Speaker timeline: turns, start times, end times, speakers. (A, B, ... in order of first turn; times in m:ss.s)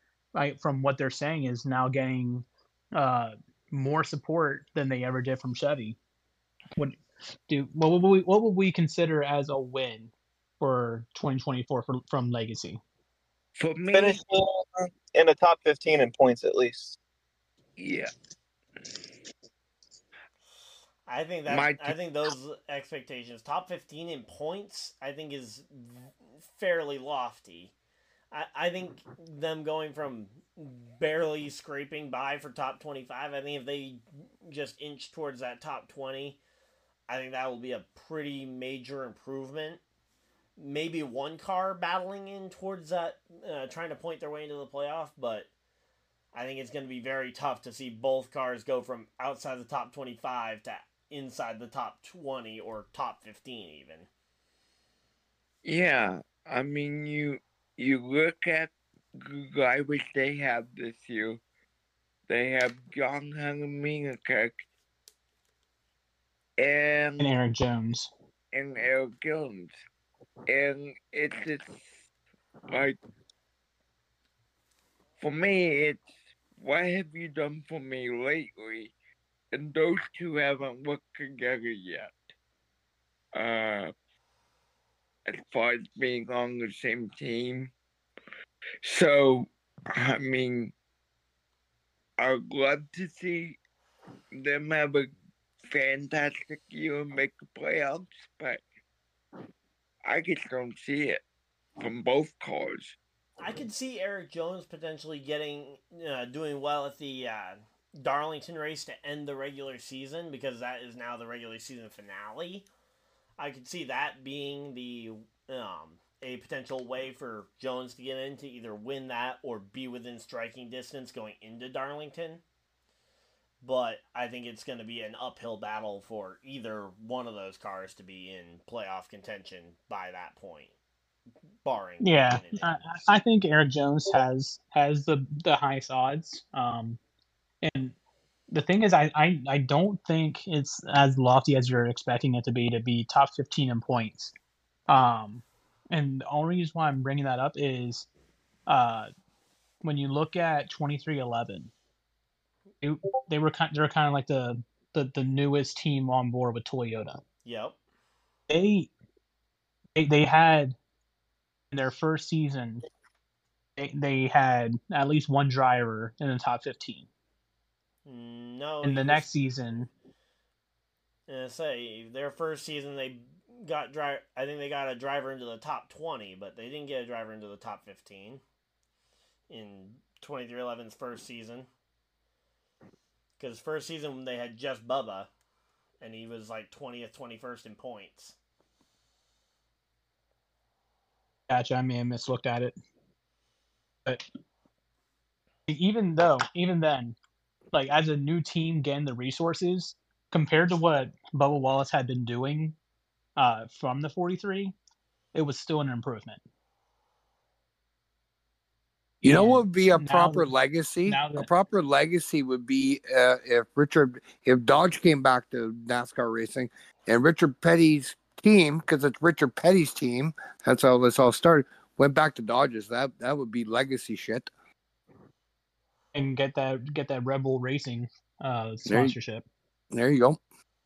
0:00.4-0:02.4 A
0:03.0-0:06.0 A
0:06.8-0:12.8 A
0:13.6-0:14.2 B
0:13.9-0:17.0 C
0:17.8-0:18.1 B
0:21.1-0:27.7 D
0:21.5-0:22.3 B
0:28.3-0:36.4 D
0:37.1-0:39.8 D
0:40.6-0:45.5 D
0:46.3-0:54.1 D
0:55.6-1:01.4 B
1:02.3-1:04.6 B
1:06.6-1:07.3 B
1:07.2-1:08.1 A
1:08.5-1:09.7 B
1:10.5-1:11.9 B
1:12.7-1:13.0 B
1:15.2-1:18.9 B
1:19.5-1:22.2 B
1:23.3-1:23.9 B
1:25.3-1:27.7 B
1:28.8-1:30.7 B
1:32.2-1:33.6 B
1:34.3-1:35.1 B
1:35.7-1:38.6 B
1:40.0-1:41.2 B
1:41.8-1:43.6 B
1:43.4-1:52.7 D
1:53.4-2:02.4 D
2:03.6-2:10.7 D
2:11.6-2:13.1 D
2:12.0-2:17.0 A
2:17.6-2:18.0 A
2:18.5-2:24.3 A
2:24.9-2:28.1 A
2:28.7-2:29.1 A
2:29.8-2:31.7 A
2:32.8-2:37.2 A
2:37.4-2:37.8 D
2:38.5-2:38.9 A
2:40.0-2:40.8 A
2:41.7-2:42.8 A
2:43.8-2:47.1 A
2:48.1-2:49.3 D
2:48.8-2:49.9 A
2:51.3-2:58.4 D
2:59.5-3:01.7 D
3:03.4-3:05.3 D
3:06.0-3:08.4 D
3:11.5-3:12.8 A
3:15.7-3:17.2 A
3:17.7-3:22.8 A
3:23.4-3:24.7 A
3:25.3-3:26.4 A
3:29.2-3:44.5 E
3:29.2-3:30.5 A
3:31.1-3:31.5 A
3:46.1-3:49.4 A
3:48.9-3:49.1 E
3:49.9-3:50.4 E